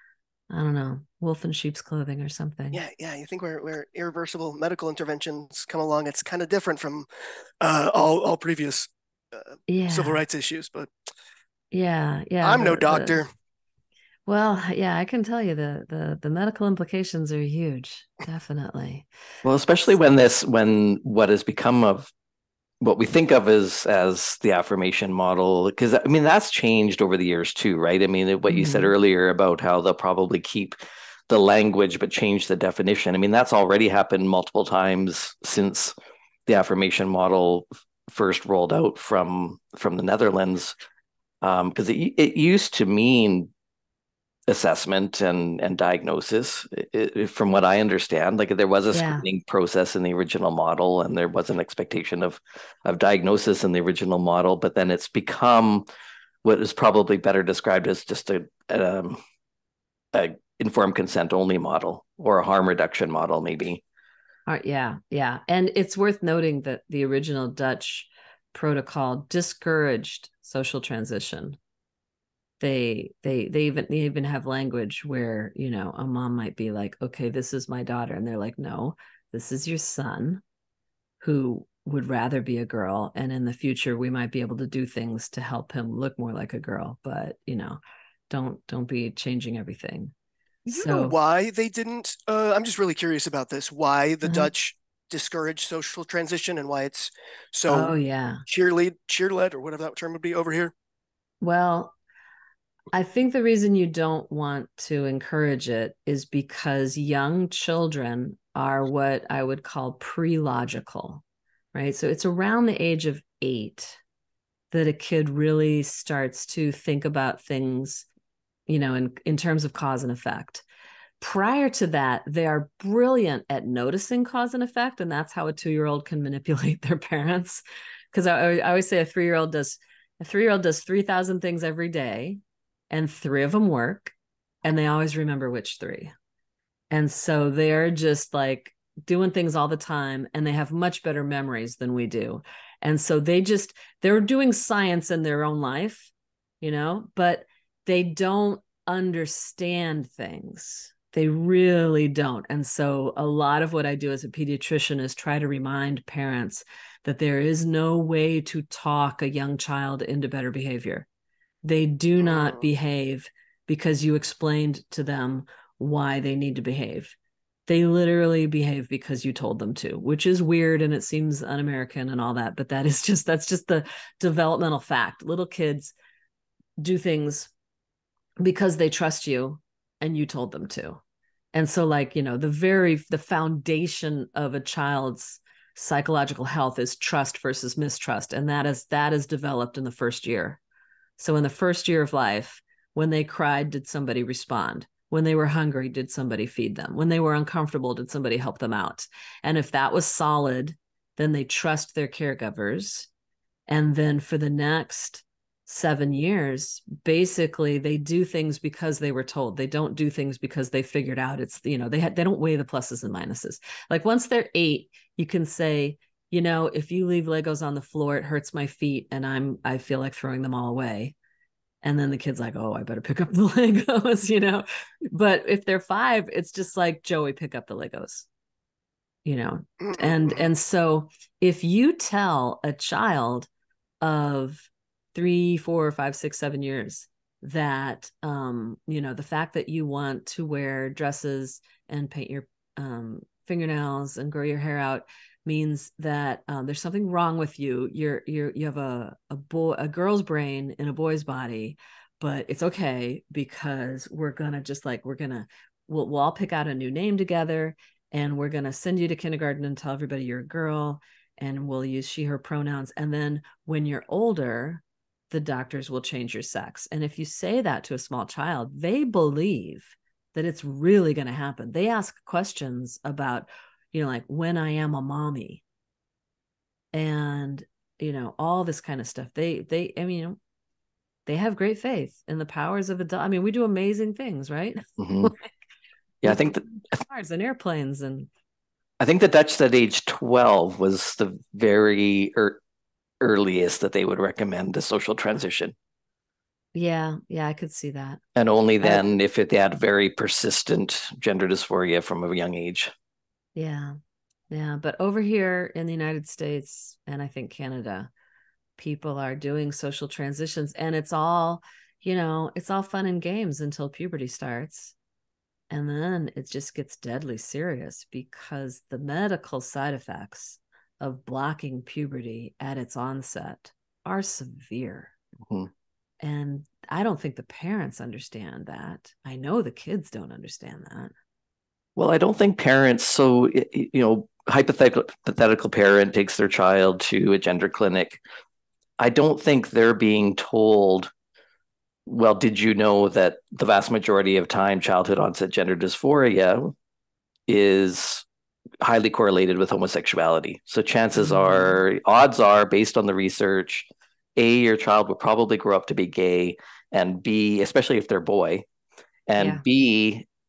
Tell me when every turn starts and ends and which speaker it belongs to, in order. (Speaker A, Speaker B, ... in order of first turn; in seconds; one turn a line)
Speaker A: 0.5-2.8
Speaker B: 2.7-7.1
Speaker B: 7.6-10.9
Speaker A: 9.7-10.2
Speaker A: 11.7-13.2
Speaker B: 12.4-13.3
Speaker A: 14.3-19.1
Speaker C: 19.4-22.1
Speaker C: 22.8-30.8
Speaker A: 28.5-28.9
Speaker C: 31.3-35.9
Speaker C: 36.5-40.8
Speaker C: 41.4-43.5
Speaker C: 44.5-55.9
Speaker A: 48.9-49.3
Speaker C: 56.4-59.2
Speaker C: 60.1-63.8
Speaker A: 64.5-71.6
Speaker A: 72.6-80.4
Speaker A: 81.2-90.1
Speaker A: 90.7-91.2
Speaker B: 90.7-98.0
Speaker A: 94.2-94.5
Speaker A: 97.7-98.4
Speaker B: 98.5-100.7
Speaker A: 101.4-102.0
Speaker A: 102.9-111.2
Speaker A: 111.7-114.0
Speaker A: 114.7-118.1
Speaker A: 118.7-120.6
Speaker A: 121.2-127.6
Speaker A: 128.1-136.1
Speaker A: 136.9-161.1
Speaker A: 161.6-167.2
Speaker B: 162.2-162.6
Speaker A: 167.7-175.9
Speaker A: 176.8-177.5
Speaker A: 178.4-181.0
Speaker A: 181.5-190.6
Speaker A: 191.2-203.1
Speaker A: 203.7-221.2
Speaker A: 221.8-228.3
Speaker A: 229.2-233.5
Speaker B: 229.8-230.4
Speaker A: 234.0-275.6
Speaker A: 276.9-280.4
Speaker A: 281.3-285.5
Speaker C: 285.0-285.3
Speaker C: 286.2-287.0
Speaker A: 286.2-288.3
Speaker C: 289.0-292.6
Speaker C: 293.2-295.7
Speaker A: 296.7-298.2
Speaker C: 298.4-302.9
Speaker A: 303.6-304.0
Speaker A: 304.5-308.1
Speaker A: 308.8-314.9
Speaker A: 315.7-325.1
Speaker A: 326.2-331.1
Speaker C: 332.0-338.2
Speaker C: 339.0-341.1
Speaker C: 342.1-346.7
Speaker C: 347.5-348.3
Speaker C: 348.8-358.7
Speaker A: 351.2-351.8
Speaker C: 359.3-360.3
Speaker A: 359.4-359.6